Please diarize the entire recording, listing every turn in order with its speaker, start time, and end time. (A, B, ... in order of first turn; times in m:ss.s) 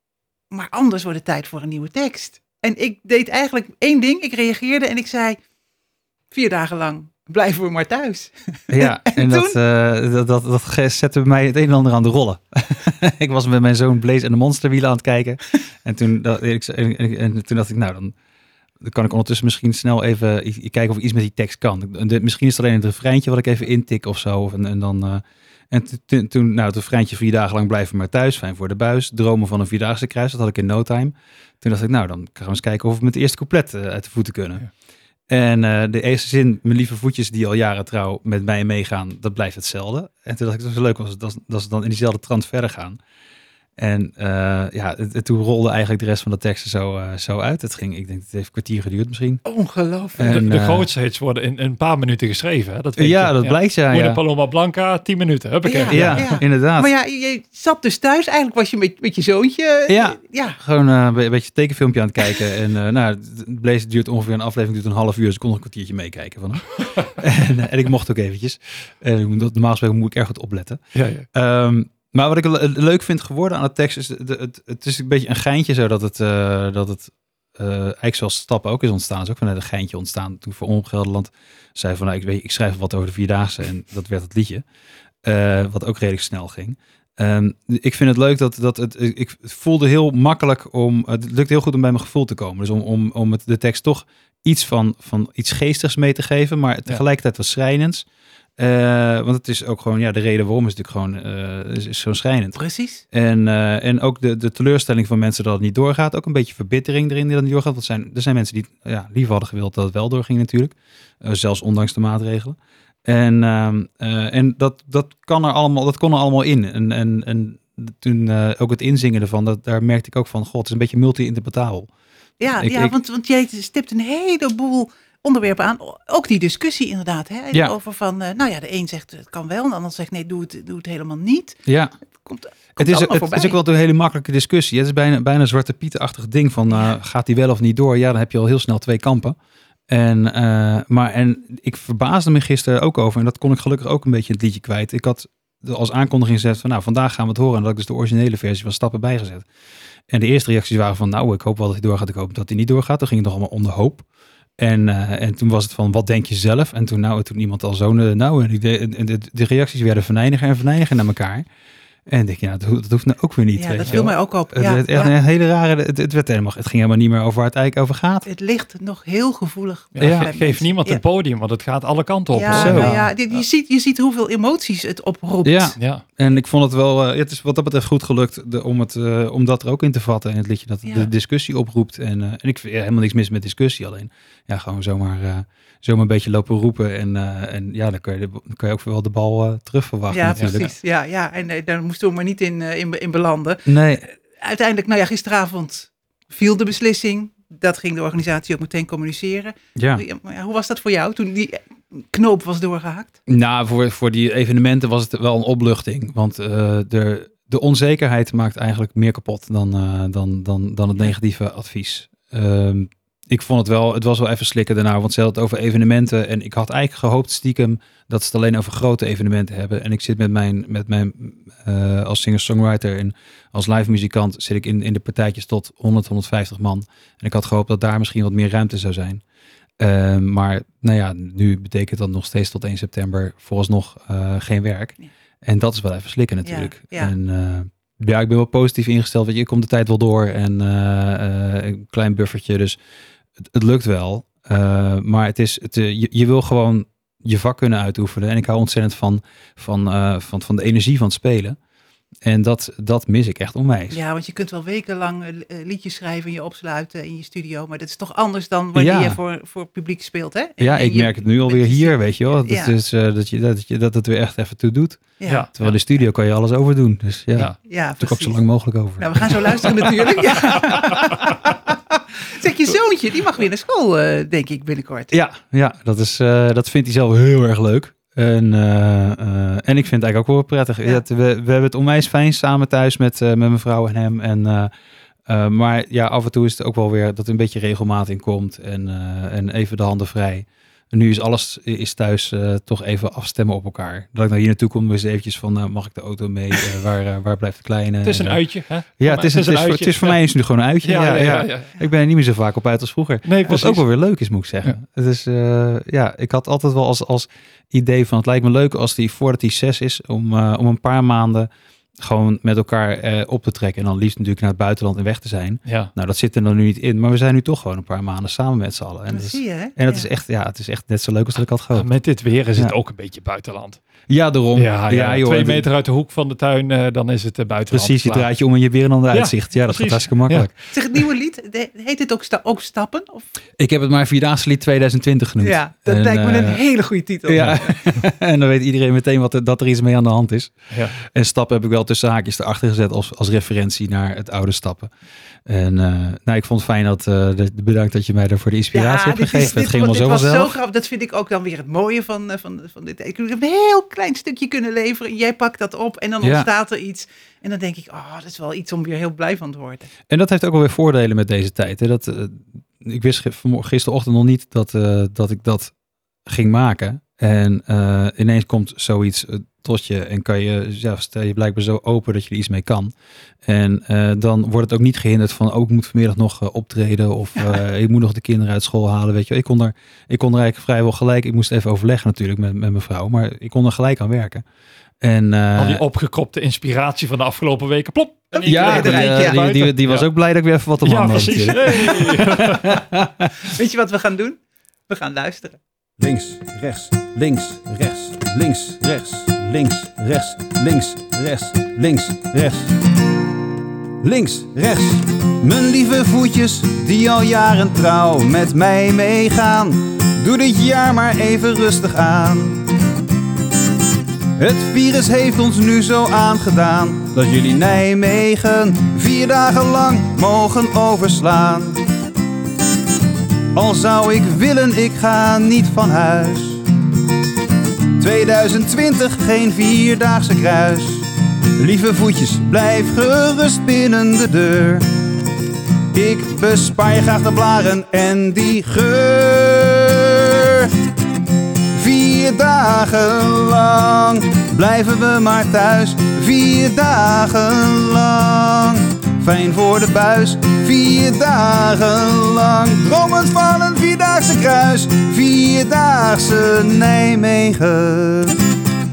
0:00.5-0:05.4 A
0:06.3-0:09.6 A
0:08.7-0:18.1 B
0:18.8-0:34.7 B
0:35.3-0:43.0 B
0:43.8-0:49.4 B
0:49.4-0:50.4 A
0:50.2-0:50.9 B
0:50.3-0:56.3 C
0:53.0-0:54.2 B
0:55.6-1:00.6 A
0:55.9-0:56.9 B
0:59.9-1:10.8 B
1:11.0-1:11.3 C
1:11.3-1:24.6 B
1:25.2-1:38.1 B
1:38.6-2:01.9 B
1:42.6-1:43.0 A
2:02.4-2:11.6 A
2:02.5-2:03.0 B
2:11.7-2:11.9 B
2:12.2-2:13.6 A
2:12.8-2:19.4 B
2:16.7-2:17.0 A
2:19.9-2:29.5 B
2:30.1-2:34.0 B
2:34.6-2:41.4 B
2:42.1-2:48.3 B
2:43.6-2:45.1 A
2:48.3-2:51.0 A
2:50.0-2:53.4 C
2:50.0-2:50.3 B
2:52.3-2:55.8 A
2:52.5-2:53.0 B
2:55.4-3:10.7 B
2:55.8-2:56.0 C
3:00.8-3:01.1 A
3:10.1-3:23.2 A
3:13.7-3:14.0 B
3:19.8-3:20.0 B
3:23.3-3:49.2 B
3:49.8-4:02.8 B
3:56.4-3:57.1 A
4:03.4-4:11.6 B
4:12.2-4:14.0 B
4:13.9-4:22.8 A
4:18.8-4:19.2 B
4:20.6-4:29.8 B
4:25.2-4:25.5 A
4:25.2-4:25.8 C
4:27.6-4:28.5 A
4:29.0-4:35.1 A
4:35.1-4:44.7 B
4:45.3-5:21.9 B
4:58.0-5:00.2 C
5:00.8-5:01.8 C
5:03.2-5:03.8 C
5:15.7-5:15.9 C
5:19.1-5:20.1 A
5:21.8-5:23.8 C
5:24.1-5:25.7 B
5:24.6-5:28.3 C
5:27.7-5:30.5 B
5:29.1-5:30.7 C
5:30.7-5:33.2 A
5:33.6-5:36.6 B
5:35.4-5:37.8 A
5:37.3-5:44.9 B
5:45.5-5:50.5 B
5:48.7-5:59.9 A
5:56.2-5:56.5 B
6:00.1-6:05.7 B
6:06.3-6:12.9 B
6:13.5-6:24.4 B
6:25.0-6:25.8 B
6:25.6-6:30.1 C
6:28.3-6:29.4 A
6:28.4-6:33.3 B
6:30.8-6:32.7 C
6:33.4-6:35.6 A
6:36.0-6:42.7 D
6:44.0-6:52.6 D
6:54.4-7:01.8 D
7:03.5-7:06.6 D
7:08.0-7:11.1 D
7:11.6-7:14.8 D
7:15.9-7:20.7 D
7:21.7-7:38.4 D